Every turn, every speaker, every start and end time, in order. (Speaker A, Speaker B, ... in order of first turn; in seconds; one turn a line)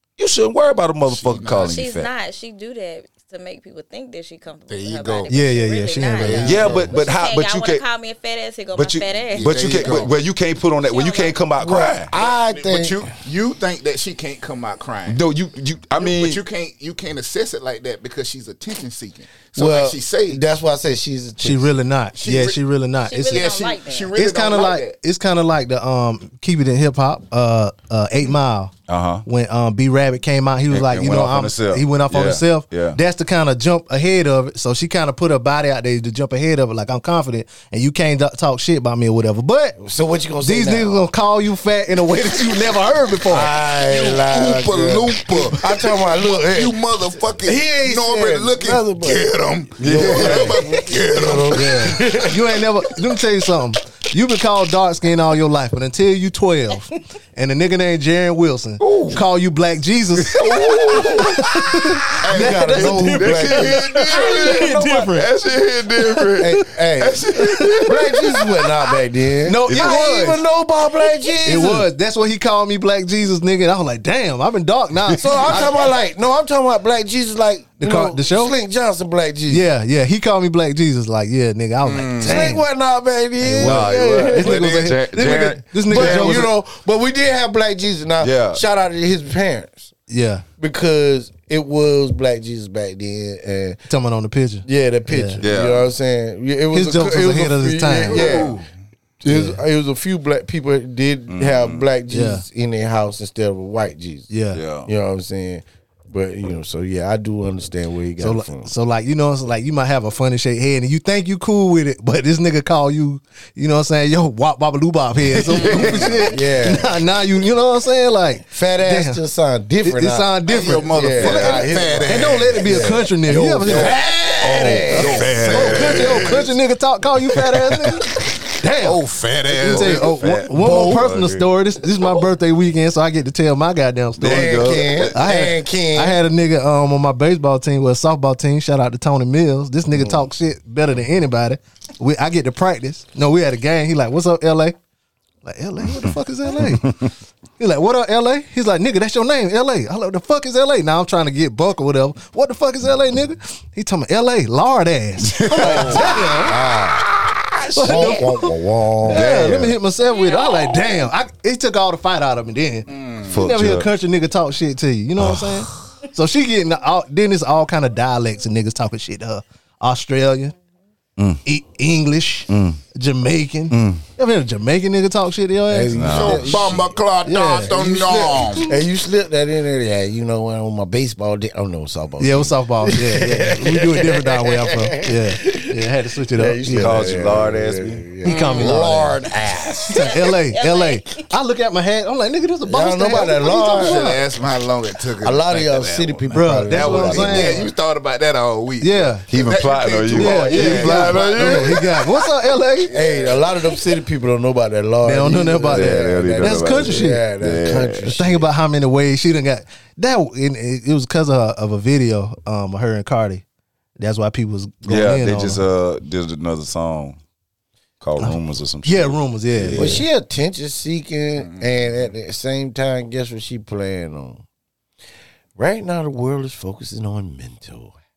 Speaker A: 0.2-2.1
Speaker B: 1.1-1.8
Speaker C: 1.7-10.0
Speaker B: 4.7-5.4
Speaker D: 5.3-6.7
Speaker B: 6.2-7.0
Speaker A: 6.4-7.8
Speaker A: 8.7-12.1
Speaker B: 9.3-10.2
Speaker C: 10.8-11.6
Speaker E: 11.6-13.1
Speaker B: 12.1-15.2
Speaker A: 15.1-16.4
Speaker B: 16.0-20.4
Speaker E: 19.6-21.7
Speaker D: 21.4-23.5
Speaker B: 22.1-22.6
Speaker C: 23.0-24.1
Speaker B: 23.3-25.0
Speaker D: 24.1-28.7
Speaker A: 28.9-29.2
Speaker D: 29.3-39.8
Speaker A: 30.7-33.0
Speaker E: 39.8-41.0
Speaker D: 40.4-43.5
Speaker E: 43.3-46.8
Speaker B: 43.7-52.2
Speaker E: 47.4-52.6
Speaker A: 49.8-50.6
Speaker D: 51.5-65.3
Speaker B: 58.8-59.2
Speaker A: 60.3-61.6
Speaker B: 60.3-61.4
Speaker B: 62.2-64.6
Speaker E: 62.2-64.9
Speaker A: 62.8-68.2
Speaker D: 66.0-66.6
Speaker E: 66.4-71.9
Speaker D: 67.4-68.5
Speaker D: 69.5-70.5
Speaker A: 69.6-70.0
Speaker D: 71.4-75.8
Speaker E: 75.1-79.7
Speaker D: 77.8-78.6
Speaker D: 79.5-82.7
Speaker B: 81.8-82.6
Speaker E: 82.2-84.7
Speaker D: 83.4-86.5
Speaker A: 83.6-86.5
Speaker B: 84.3-85.4
Speaker E: 85.9-89.9
Speaker A: 88.2-88.6
Speaker D: 90.1-90.5
Speaker E: 90.6-93.8
Speaker D: 93.9-95.4
Speaker E: 94.7-98.6
Speaker A: 95.4-95.9
Speaker D: 96.7-98.5
Speaker B: 98.1-98.7
Speaker E: 99.2-104.3
Speaker D: 99.3-99.6
Speaker A: 101.3-101.9
Speaker D: 102.1-102.5
Speaker D: 104.3-104.6
Speaker A: 104.5-104.9
Speaker E: 104.9-108.7
Speaker D: 108.2-119.2
Speaker A: 115.3-116.2
Speaker B: 115.5-116.3
Speaker E: 116.3-116.9
Speaker E: 118.5-126.1
Speaker D: 119.8-129.0
Speaker B: 120.5-122.7
Speaker B: 123.7-126.5
Speaker A: 125.0-126.5
Speaker A: 127.3-128.0
Speaker B: 128.7-130.2
Speaker D: 129.5-144.8
Speaker A: 129.7-131.5
Speaker E: 130.6-131.0
Speaker A: 134.2-135.1
Speaker E: 134.2-136.2
Speaker E: 139.9-140.3
Speaker D: 145.4-156.6
Speaker A: 145.9-147.1
Speaker A: 155.2-156.4
Speaker E: 155.6-157.1
Speaker A: 157.4-158.2
Speaker D: 157.7-158.5
Speaker E: 157.8-159.3
Speaker A: 159.0-159.8
Speaker D: 159.1-170.5
Speaker C: 160.2-161.0
Speaker B: 162.9-163.4
Speaker A: 163.2-163.9
Speaker A: 165.2-165.7
Speaker A: 171.2-171.4
Speaker D: 171.4-176.7
Speaker A: 172.5-172.8
Speaker A: 173.7-174.0
Speaker E: 175.7-178.0
Speaker A: 175.9-176.7
Speaker B: 176.1-178.7
Speaker D: 177.2-178.7
Speaker E: 178.7-185.8
Speaker D: 182.2-187.2
Speaker E: 186.3-190.0
Speaker A: 186.7-188.1
Speaker D: 188.2-189.2
Speaker B: 188.3-189.0
Speaker C: 189.9-191.3
Speaker D: 189.9-194.2
Speaker E: 192.7-194.2
Speaker B: 193.5-202.0
Speaker E: 195.2-197.7
Speaker D: 196.3-197.7
Speaker D: 198.8-199.2
Speaker A: 199.3-201.8
Speaker D: 200.2-202.9
Speaker E: 200.3-201.0
Speaker B: 202.9-203.6
Speaker E: 202.9-208.5
Speaker D: 205.0-207.2
Speaker A: 205.7-208.1
Speaker D: 208.1-213.4
Speaker D: 214.0-215.6
Speaker A: 214.8-217.2
Speaker A: 218.0-220.1
Speaker D: 218.2-220.1
Speaker E: 219.7-224.4
Speaker B: 221.4-222.0
Speaker E: 225.6-227.9